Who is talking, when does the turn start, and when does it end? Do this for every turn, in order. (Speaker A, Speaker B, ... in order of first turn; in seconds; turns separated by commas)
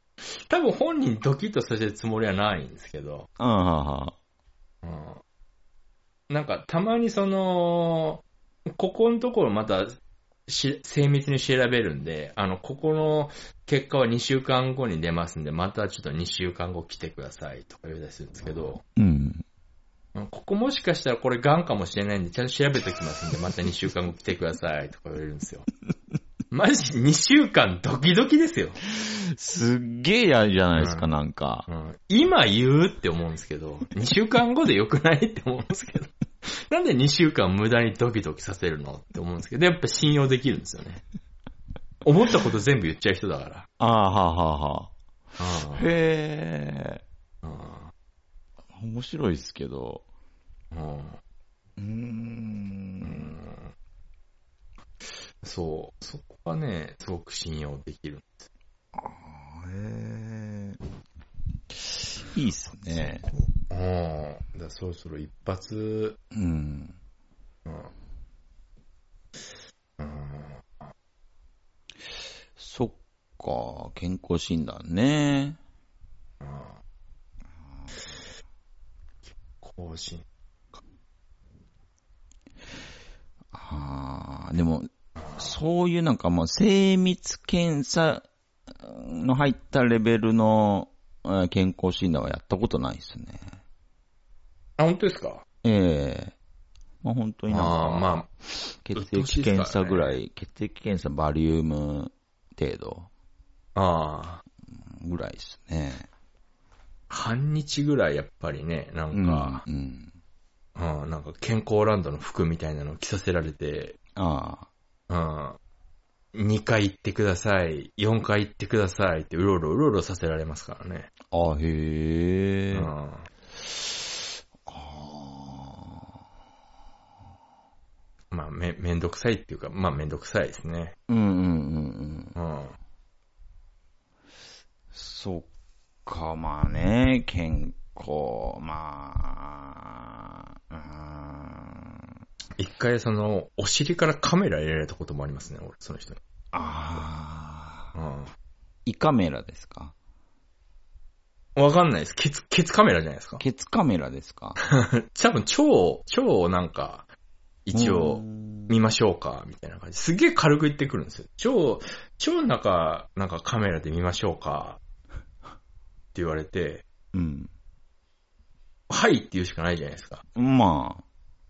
Speaker A: 0.2-3.3, Speaker B: 3.4-4.1, Speaker A: 4.8-5.2, Speaker A: 6.3-9.9, Speaker A: 10.5-18.8, Speaker B: 18.9-19.4, Speaker A: 20.1-25.7, Speaker A: 26.5-28.8, Speaker B: 28.8-31.7, Speaker A: 30.8-31.1, Speaker A: 31.7-41.0, Speaker A: 42.0-43.7, Speaker B: 43.8-44.9, Speaker A: 45.4-45.9, Speaker B: 45.7-47.0, Speaker A: 47.4-47.9, Speaker B: 48.7-50.0, Speaker A: 50.7-51.2, Speaker B: 51.8-53.3, Speaker A: 53.0-53.7, Speaker A: 55.4-58.5, Speaker B: 58.9-60.8, Speaker B: 61.7-63.3, Speaker A: 63.0-66.2, Speaker B: 66.3-67.0, Speaker A: 67.7-67.9, Speaker A: 70.0-70.9, Speaker B: 72.6-75.6, Speaker A: 76.4-76.8, Speaker A: 79.6-80.2, Speaker B: 83.5-93.5, Speaker A: 94.8-95.4, Speaker B: 95.6-96.3, Speaker B: 97.0-98.2, Speaker A: 97.5-98.3, Speaker B: 98.8-103.1, Speaker A: 98.9-100.2, Speaker A: 103.7-104.4, Speaker B: 104.7-106.1, Speaker A: 107.1-109.6, Speaker B: 109.1-110.1, Speaker A: 110.8-114.0, Speaker B: 114.1-114.7, Speaker A: 115.1-115.6, Speaker A: 116.3-121.1, Speaker B: 121.3-122.9, Speaker A: 122.7-123.3, Speaker B: 123.6-126.1, Speaker A: 128.3-130.9, Speaker B: 131.1-132.3, Speaker A: 132.3-132.8, Speaker B: 134.9-135.5, Speaker B: 136.1-142.1, Speaker A: 142.6-146.2, Speaker B: 146.5-147.9, Speaker A: 147.9-148.3, Speaker B: 148.8-149.9, Speaker A: 151.6-153.4, Speaker B: 153.4-154.6, Speaker A: 154.6-157.1, Speaker A: 157.7-164.8, Speaker B: 157.7-158.7, Speaker A: 166.1-166.8, Speaker B: 167.1-167.5, Speaker A: 168.9-170.2, Speaker B: 170.3-171.0